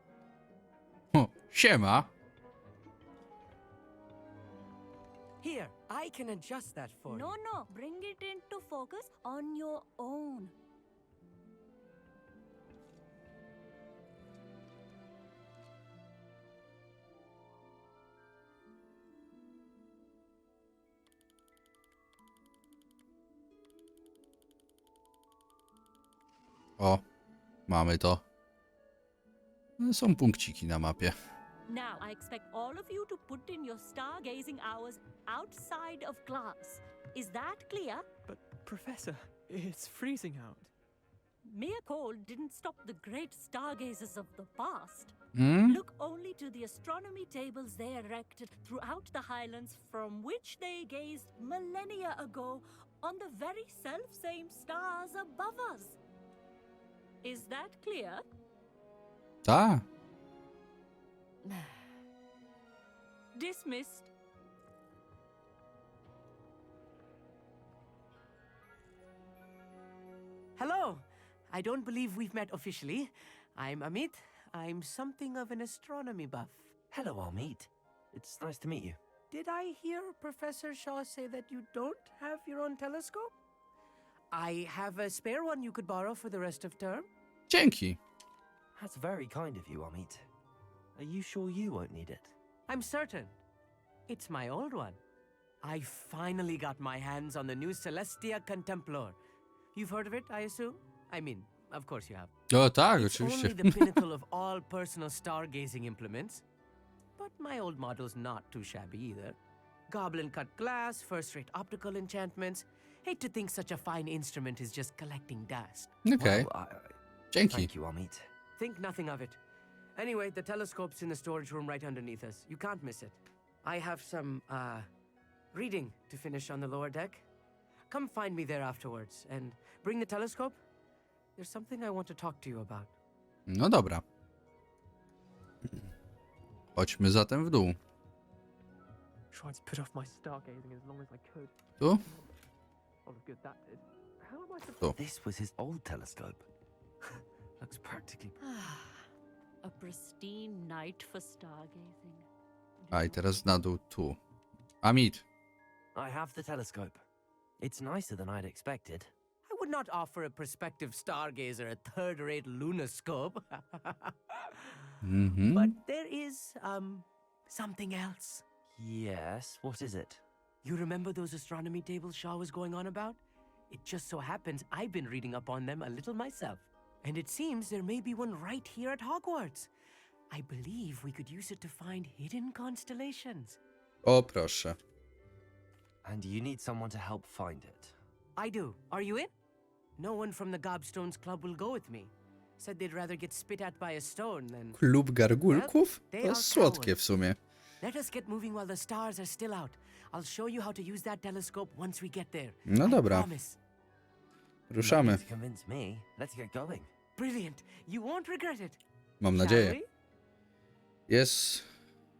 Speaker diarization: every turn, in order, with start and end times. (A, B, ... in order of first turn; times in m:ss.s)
0:01.1-0:02.1 A
0:05.4-0:07.3 B
0:07.1-0:10.5 C
0:27.7-0:28.2 A
0:29.8-0:31.1 A
0:31.7-0:38.0 C
0:38.2-0:40.7 D
0:41.4-0:45.1 C
0:45.4-0:45.8 A
0:45.6-0:56.0 C
0:57.2-0:58.2 C
0:59.4-0:59.8 A
1:03.3-1:04.1 C
1:10.6-1:16.7 B
1:16.9-1:19.0 E
1:19.3-1:23.3 B
1:24.3-1:27.1 B
1:27.5-1:28.0 A
1:28.8-1:30.2 E
1:30.9-1:32.3 E
1:32.7-1:33.4 B
1:34.1-1:35.0 B
1:35.6-1:39.2 B
1:39.7-1:42.3 B
1:42.5-1:43.8 A
1:43.0-1:46.4 B
1:47.2-1:49.4 B
1:49.9-1:55.9 B
1:56.0-1:56.5 A
1:56.2-1:57.0 E
1:57.3-1:57.7 A
1:57.5-1:58.3 E
1:58.6-1:59.4 B
2:00.0-2:04.9 B
2:05.5-2:07.2 B
2:07.9-2:10.6 B
2:11.4-2:12.9 B
2:13.5-2:14.0 A
2:16.8-2:17.8 A
2:19.3-2:21.5 D
2:23.0-2:24.9 D
2:24.9-2:26.4 E
2:27.6-2:28.4 E
2:28.5-2:28.9 C
2:29.6-2:32.2 C
2:32.8-2:33.1 C
2:32.9-2:34.2 A
2:34.8-2:35.2 A
2:35.9-2:37.0 E
2:37.6-2:39.1 E
2:39.5-2:44.9 B
2:45.0-2:45.8 A
2:45.5-2:48.4 B
2:48.7-2:50.2 E
2:50.6-2:59.7 B
3:00.3-3:03.6 B
3:04.0-3:04.8 A
3:06.0-3:07.9 E
3:08.4-3:09.3 B
3:10.0-3:14.8 B
3:14.7-3:17.4 A
3:15.4-3:17.0 B
3:17.8-3:23.6 B
3:22.7-3:23.3 A
3:24.7-3:25.2 A
3:24.8-3:26.9 E
3:27.2-3:29.9 B
3:29.2-3:29.8 A
3:31.1-3:31.7 A